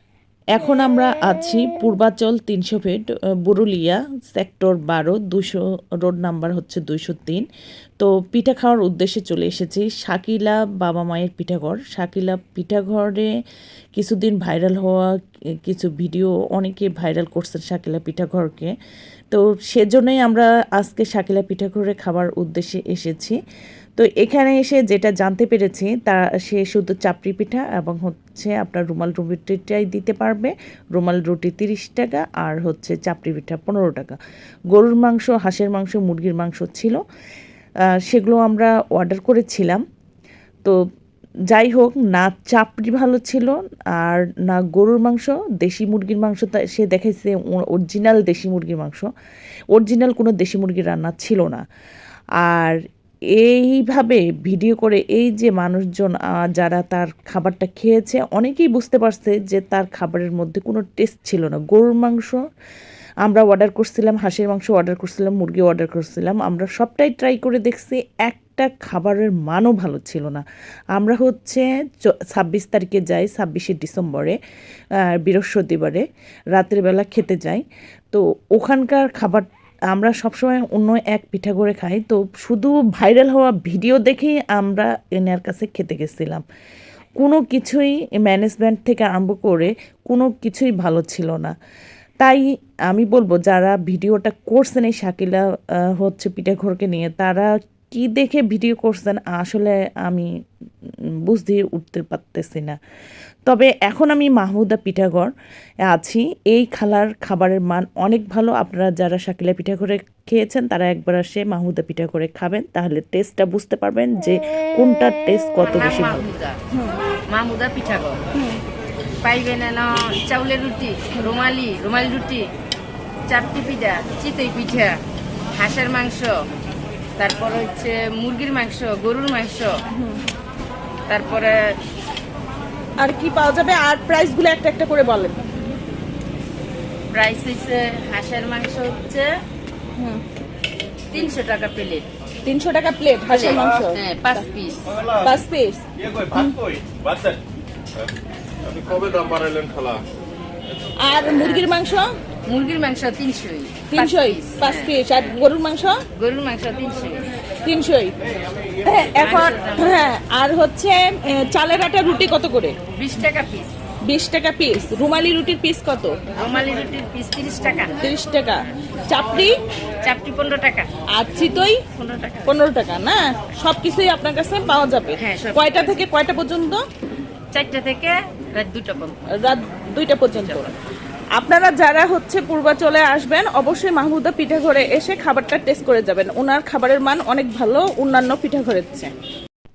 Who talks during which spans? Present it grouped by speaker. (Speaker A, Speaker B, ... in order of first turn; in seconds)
Speaker A: 0.5-7.4, 8.0-13.3, 13.9-15.1, 15.7-18.7, 19.3-23.4, 24.0-34.2, 34.7-37.0, 38.0-39.8, 41.5-49.1, 49.7-51.6, 52.4-52.8, 53.4-62.4, 63.2-70.4, 71.0-74.4, 75.1-86.4, 87.2-91.5, 92.2-95.4, 96.0-100.3, 101.3-102.8, 103.5-105.3, 105.9-116.3
Speaker B: 115.6-116.6, 117.3-118.2, 119.2-122.5, 123.3-125.0, 125.5-126.3, 127.2-129.8, 131.1-131.8, 137.1-139.3, 141.1-142.1, 143.3-144.9, 152.5-154.9, 156.1-157.3, 159.1-160.0, 162.9-163.7, 166.3-168.1, 170.0-170.9, 172.1-172.4, 175.2-175.9, 177.5-179.3, 180.3-180.7
Speaker C: 116.7-117.0, 118.3-118.6, 133.0-135.4, 140.0-140.2, 142.4-144.0, 145.2-146.6, 151.0-152.1, 153.9-156.0, 157.6-158.1, 158.8-162.8, 164.1-166.2, 168.0-169.6, 171.2-176.8, 179.4-180.7, 181.3-189.1
Speaker D: 146.2-147.4, 148.6-150.0